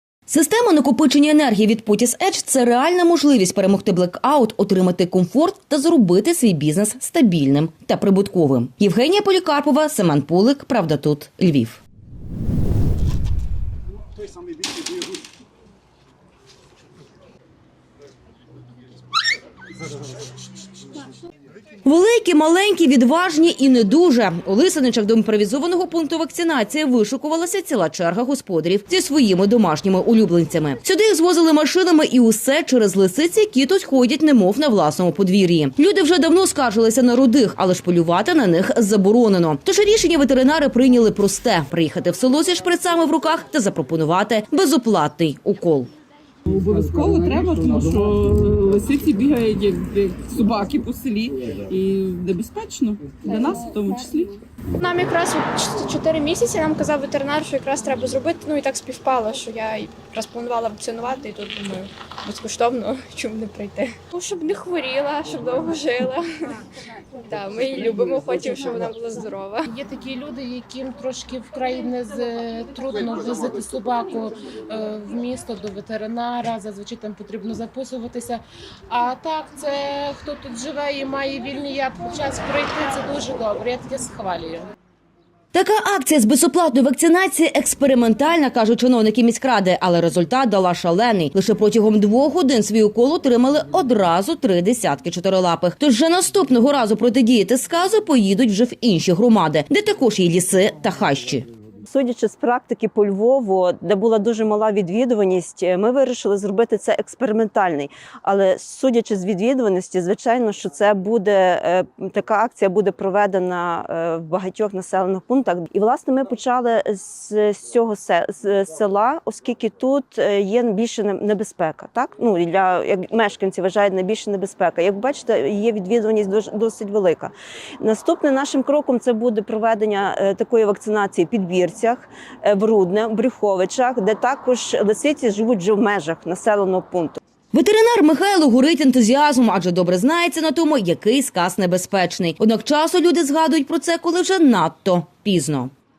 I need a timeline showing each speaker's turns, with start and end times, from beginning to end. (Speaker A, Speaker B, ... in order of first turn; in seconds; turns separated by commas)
Speaker A: 0.3-11.8, Speaker A: 21.8-45.9, Speaker B: 46.5-54.4, Speaker C: 54.8-66.2, Speaker C: 67.3-69.7, Speaker D: 69.7-84.7, Speaker A: 85.5-101.4, Speaker E: 101.8-137.2, Speaker A: 137.5-145.7